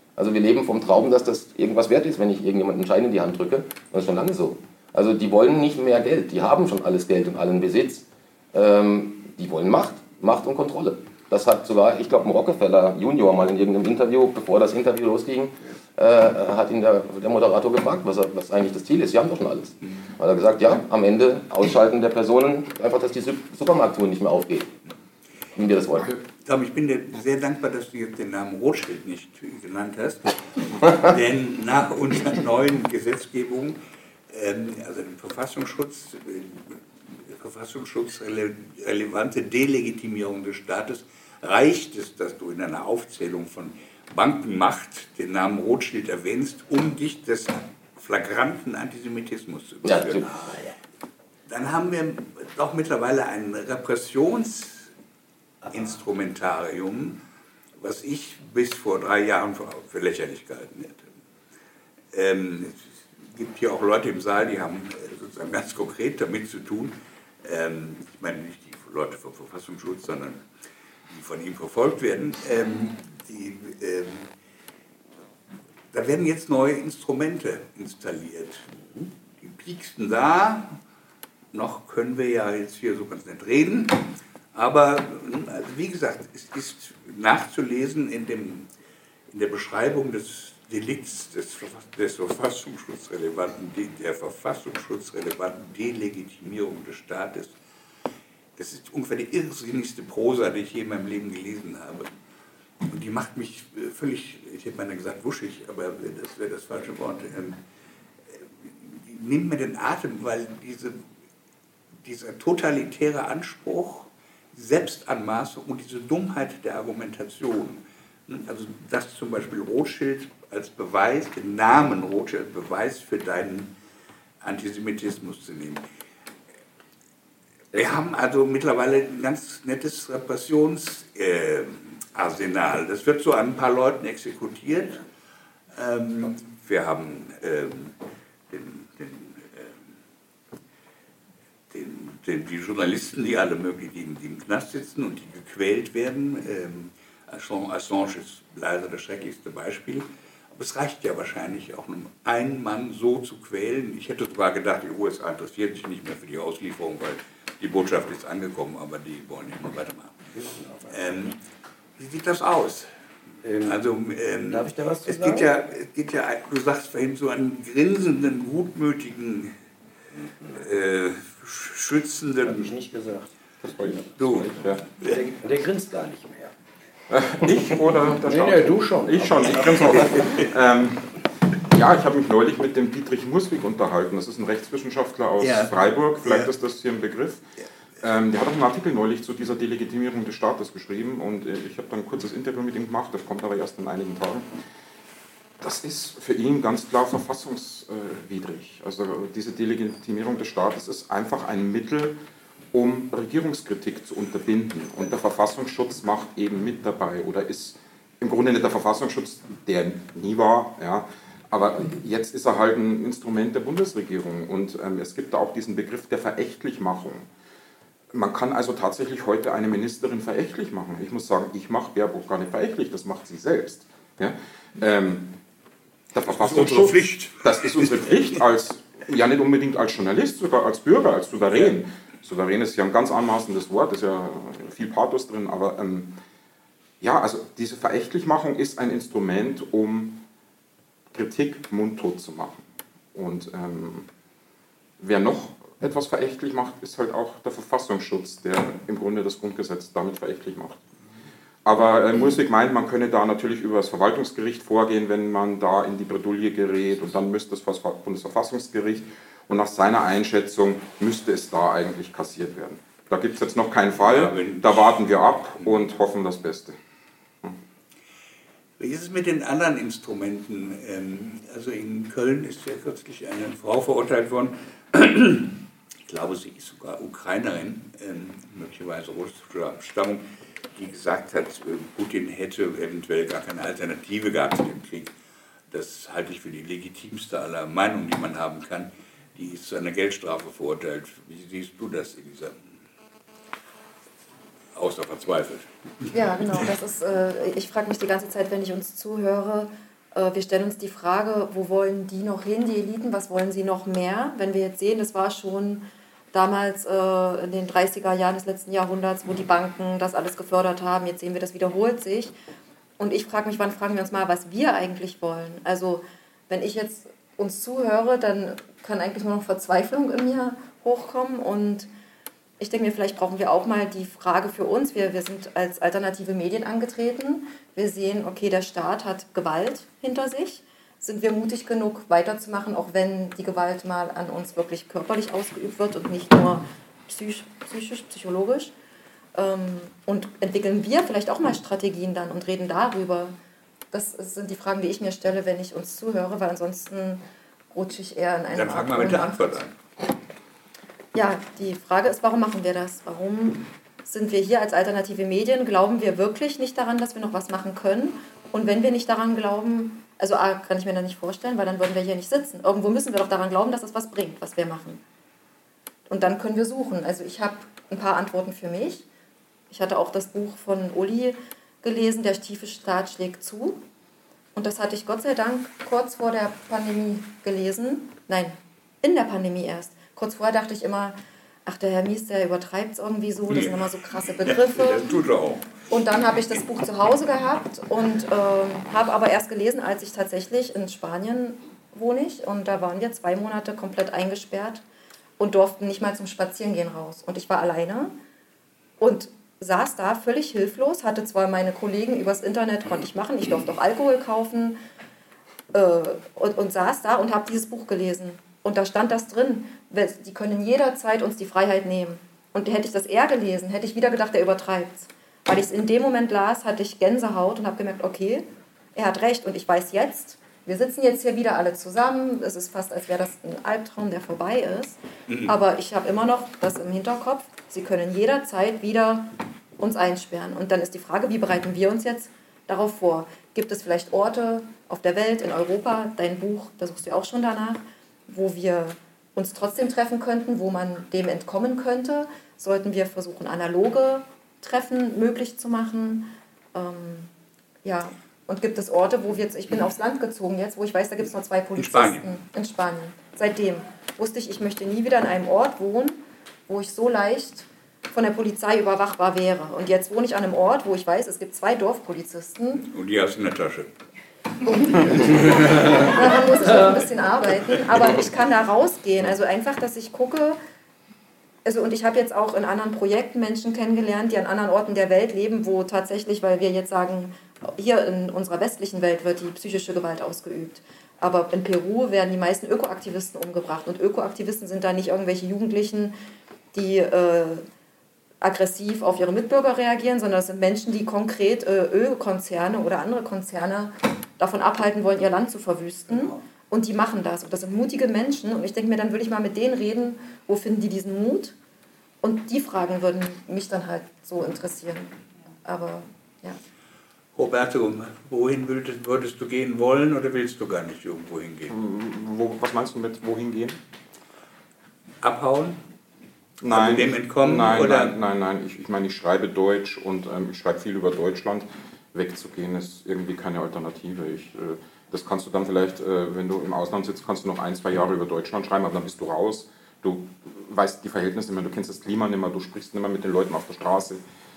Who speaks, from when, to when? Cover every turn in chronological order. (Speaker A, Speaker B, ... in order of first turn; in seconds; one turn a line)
Speaker A: 0.2-24.7
Speaker A: 25.6-26.1
Speaker B: 26.4-33.8
Speaker B: 34.3-50.5
Speaker A: 49.9-50.3
Speaker B: 51.5-54.9
Speaker B: 55.7-57.2
Speaker B: 57.8-61.1
Speaker B: 62.1-70.4
Speaker B: 71.1-74.3
Speaker B: 75.9-78.8
Speaker B: 79.4-80.8
Speaker B: 81.5-88.7
Speaker B: 89.3-97.5
Speaker B: 98.6-102.1
Speaker B: 102.8-107.6
Speaker B: 108.3-111.0
Speaker B: 112.0-123.7
Speaker B: 124.4-125.8
Speaker B: 127.7-135.0
Speaker B: 135.7-137.9
Speaker B: 138.5-139.8
Speaker B: 141.7-160.3
Speaker C: 160.3-161.0
Speaker B: 160.9-161.4
Speaker B: 162.0-162.9
Speaker C: 163.4-163.8
Speaker B: 163.6-169.6
Speaker C: 164.5-165.5
Speaker B: 170.6-172.7
Speaker C: 172.5-176.5
Speaker D: 173.6-174.8
Speaker B: 174.2-175.2
Speaker D: 177.1-187.4
Speaker C: 178.1-180.4
Speaker B: 180.0-180.3
Speaker B: 185.4-186.5
Speaker D: 188.0-194.5
Speaker D: 195.6-202.2
Speaker D: 202.7-217.3
Speaker D: 218.1-225.4
Speaker D: 226.1-236.2
Speaker B: 226.3-228.1
Speaker D: 237.0-240.2
Speaker D: 241.1-242.6
Speaker D: 243.1-244.1
Speaker D: 245.0-250.8
Speaker D: 251.7-266.8
Speaker B: 264.0-265.0
Speaker B: 268.8-280.2
Speaker B: 280.8-285.1
Speaker B: 285.7-292.6
Speaker B: 294.7-296.1
Speaker E: 296.1-312.3
Speaker E: 313.0-321.9
Speaker E: 322.6-338.7
Speaker E: 339.4-343.4
Speaker E: 343.9-349.6
Speaker B: 348.5-349.7
Speaker E: 351.1-365.0
Speaker E: 366.1-369.1
Speaker E: 369.7-373.8
Speaker E: 374.6-385.0
Speaker B: 383.5-385.8
Speaker E: 385.9-394.8
Speaker E: 395.4-398.1
Speaker E: 399.0-404.8
Speaker E: 405.7-447.3
Speaker B: 425.3-425.5
Speaker E: 447.8-462.9
Speaker B: 451.8-452.3
Speaker B: 462.8-463.9
Speaker E: 464.6-470.6
Speaker B: 465.1-466.3
Speaker E: 471.6-486.1
Speaker E: 486.7-487.6
Speaker E: 488.4-501.6
Speaker E: 502.2-506.6
Speaker B: 507.4-511.7
Speaker D: 511.7-513.8
Speaker B: 515.2-515.8
Speaker D: 516.6-534.2
Speaker B: 516.7-518.2